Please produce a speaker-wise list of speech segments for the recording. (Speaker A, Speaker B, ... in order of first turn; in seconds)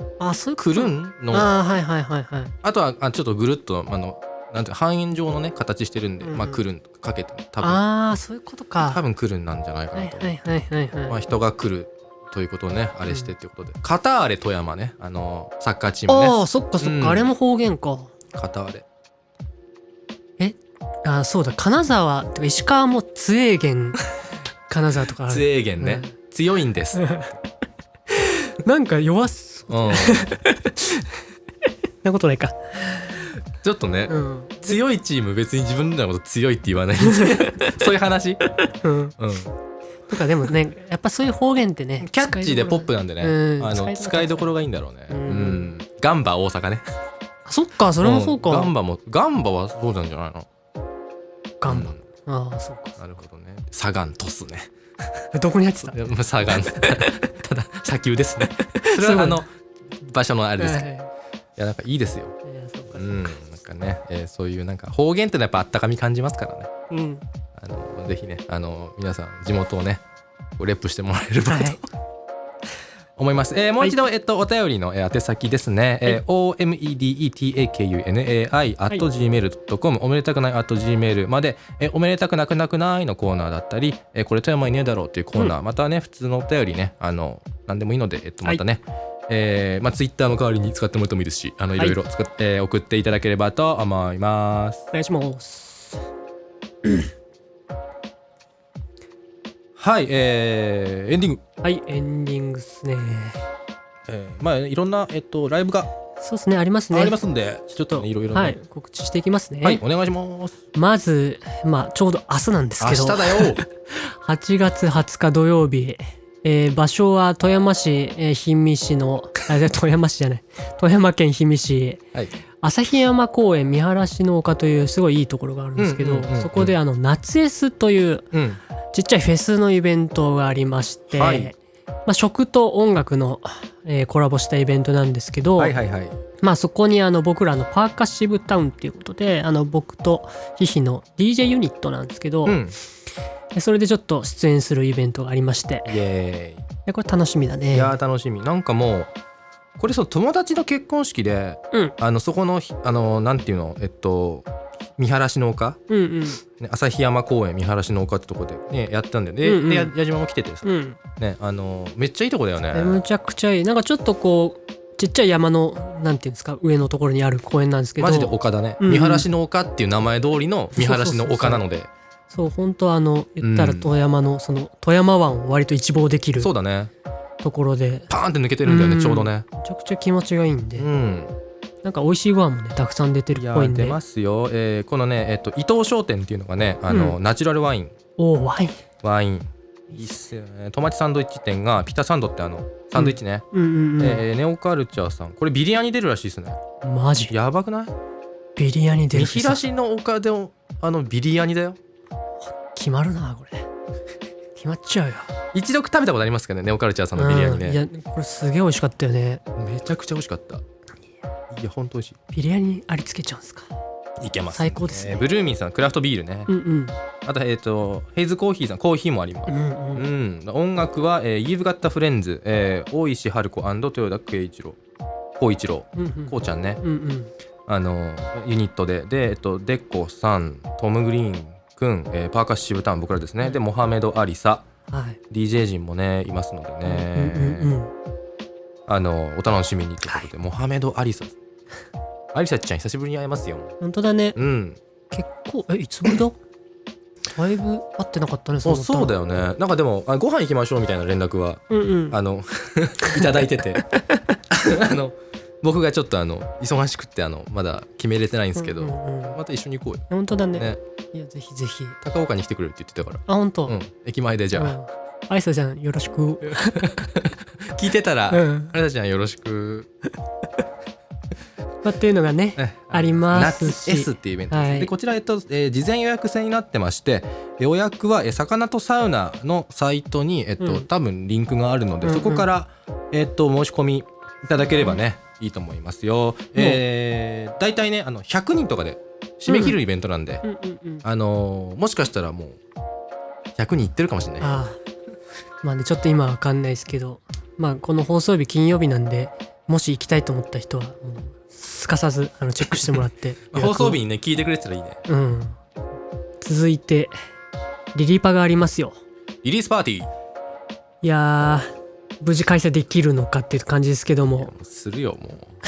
Speaker A: 0.2-2.5, 6.2-6.6, 7.6-9.0, 9.9-11.2, 16.1-18.2, 20.4-24.0, 24.7-26.1, 27.0-27.3, 28.1-31.2, 32.0-33.3, 34.1-34.8, 37.0-37.8, 38.6-39.2, 40.1-44.5, 45.1-45.7, 47.5-48.7, 51.6-53.0, 55.3-56.0, 56.7-57.2, 58.8-59.4, 60.6-61.1, 62.5-63.1, 66.9-67.2, 71.5-71.8, 94.9-96.0, 101.6-103.4, 106.2-107.2, 107.8-109.8, 110.8-122.0, 122.6-128.3, 128.9-135.8, 136.4-142.6, 143.5-146.0, 146.9-148.0, 155.9-156.4, 159.4-159.9, 160.6-161.0, 162.7-169.2, 170.8-171.6, 172.3-176.5, 177.4-178.1, 178.6-180.9, 181.8-184.0, 186.9-187.2, 188.2-188.8, 193.0-194.2, 196.8-197.3, 198.6-199.6, 202.5-203.7, 204.6-205.3, 207.2-209.4, 212.3-213.7, 214.5-215.3, 216.5-217.0, 219.5-220.1, 226.0-227.3, 234.9-235.2, 236.8-237.9, 243.8-244.4, 245.1-246.4, 247.3-249.1, 251.7-252.2, 253.0-253.3, 253.9-254.4, 258.6-259.4, 260.1-262.0, 263.3-263.8, 264.6-267.1, 268.3-268.7, 271.8-274.9, 280.6-280.9, 282.0-282.5, 286.6-286.8, 289.5-289.8, 290.4-291.1, 294.4-294.8, 295.6-304.0, 305.1-305.6, 306.4-307.1, 307.9-309.0, 311.0-311.7, 312.2-314.5
Speaker B: 0.6-1.5, 2.6-7.8, 8.8-10.3, 11.1-17.3, 18.3-18.9, 25.3-27.4, 29.7-30.3, 33.6-38.4, 39.2-39.5, 42.0-46.9, 48.0-50.5, 51.7-52.0, 53.0-54.7, 55.8-59.5, 60.0-60.9, 61.6-62.4, 62.9-66.7, 67.6-70.0, 70.6-71.8, 73.2-94.8, 99.8-101.4, 104.1-105.9, 106.9-108.6, 109.6-110.6, 112.8-113.6, 125.8-126.8, 128.3-128.6, 131.1-131.5, 135.6-136.2, 142.5-142.8, 145.9-146.7, 147.7-149.1, 149.8-155.8, 156.6-160.7, 161.2-163.0, 168.0-171.9, 173.4-173.9, 176.4-176.9, 178.1-179.5, 180.8-181.3, 183.3-187.9, 189.0-193.5, 194.0-196.6, 197.3-197.9, 199.1-201.8, 205.5-207.8, 209.6-210.6, 211.5-212.2, 214.2-216.5, 217.2-224.8, 225.4-226.8, 227.7-234.7, 235.3-237.7, 238.9-241.4, 242.3-243.8, 244.4-244.8, 248.7-253.8, 254.5-260.8, 262.0-264.8, 266.5-269.9, 272.6-290.4, 291.0-292.6, 293.6-294.6, 303.5-305.0, 309.4-310.1, 314.4-315.6